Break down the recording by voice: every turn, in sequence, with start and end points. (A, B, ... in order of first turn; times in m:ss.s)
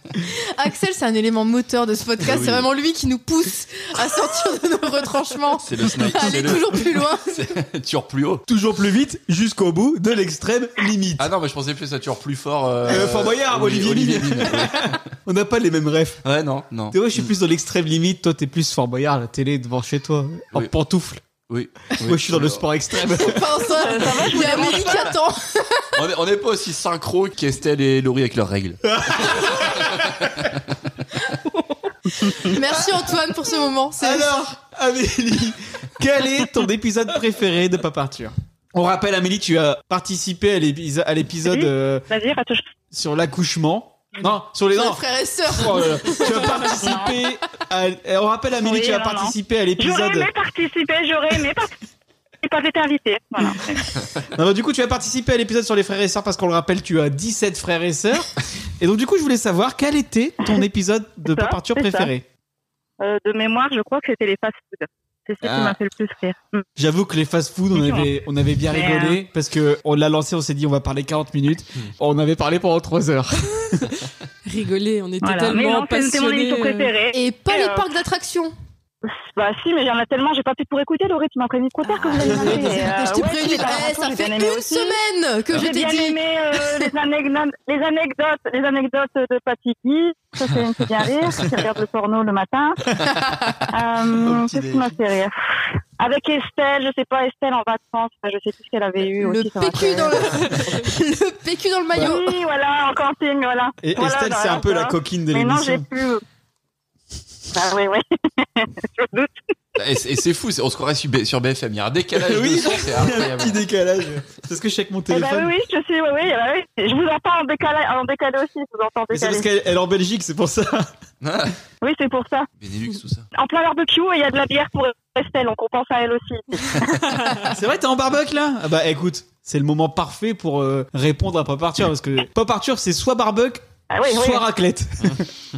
0:00.5-0:07.2 A
0:02.2-0:02.6 B
0:05.6-0:08.4 B
0:08.5-0:11.3 C
0:11.2-0:15.0 B
0:12.8-0:16.2 C
0:16.2-0:17.2 B
0:16.9-0:21.2 C
0:21.5-0:22.6 B
0:22.0-0:23.6 C
0:23.2-0:26.0 A
0:23.6-0:25.2 D
0:25.9-0:30.6 B
0:28.8-0:30.1 C
0:32.3-0:34.3 A
0:32.6-0:33.1 C
0:34.0-0:42.0 C
0:41.4-0:42.7 D
0:42.9-0:50.3 C
0:44.7-0:46.7 A
0:46.3-0:47.2 D
0:48.6-0:51.7 D
0:52.4-0:53.9 D
0:54.3-1:02.2 C
1:01.3-1:02.1 D
1:03.0-1:06.6 D
1:05.4-1:05.8 C
1:06.8-1:13.9 C
1:07.7-1:08.1 D
1:08.7-1:09.2 D
1:14.4-1:16.9 E
1:15.2-1:17.9 D
1:17.1-1:18.5 A
1:19.1-1:25.0 D
1:21.9-1:22.8 E
1:22.2-1:26.9 A
1:25.5-1:32.8 D
1:33.7-1:35.3 D
1:34.1-1:35.0 B
1:36.0-1:40.8 D
1:39.2-1:42.4 A
1:41.9-1:46.2 D
1:43.8-1:45.9 C
1:47.5-1:49.4 D
1:49.8-1:53.6 B
1:52.1-1:55.5 C
1:55.1-1:59.5 D
1:59.1-2:00.9 C
2:01.2-2:01.6 B
2:01.8-2:02.5 D
2:02.6-2:03.3 B
2:03.3-2:07.5 D
2:07.5-2:15.2 C
2:13.9-2:14.4 D